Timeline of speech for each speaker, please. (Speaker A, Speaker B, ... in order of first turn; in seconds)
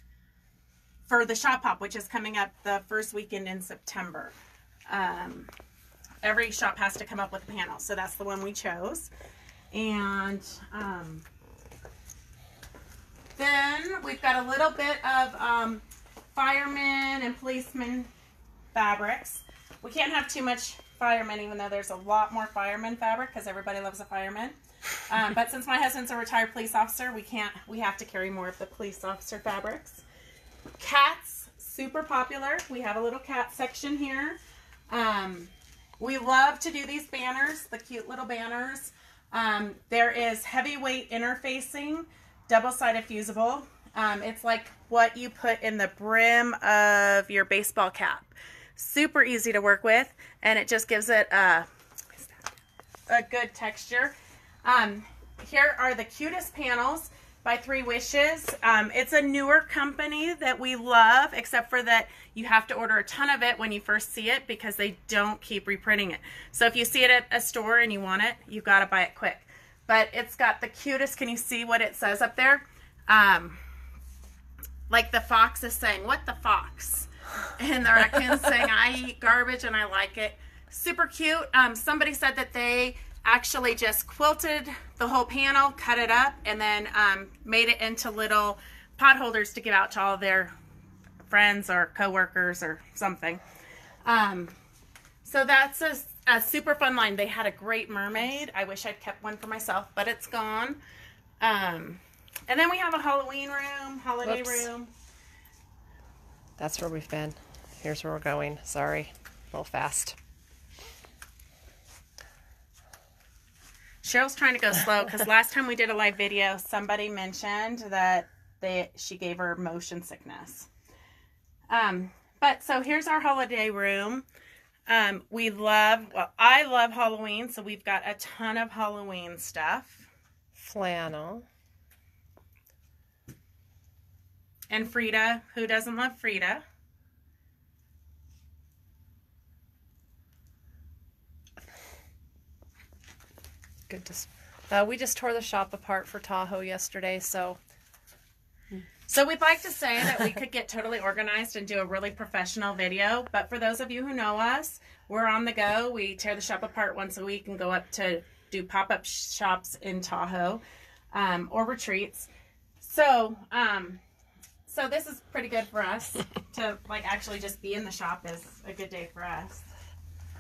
Speaker A: 1.1-4.3, 4.9-5.5, 6.2-9.1, 9.7-11.2, 13.4-18.1, 18.7-24.6, 25.1-30.0, 30.8-34.4, 34.9-51.7, 53.1-73.6, 74.9-90.5, 91.3-93.4, 94.0-94.5, 95.2-100.8, 101.4-104.9, 114.0-120.7, 121.7-124.3, 124.9-130.1, 134.7-136.6, 149.1-160.6, 161.1-162.3, 162.8-164.0, 164.7-169.7
Speaker B: 104.2-104.7, 106.6-110.2, 130.6-131.5, 143.9-147.6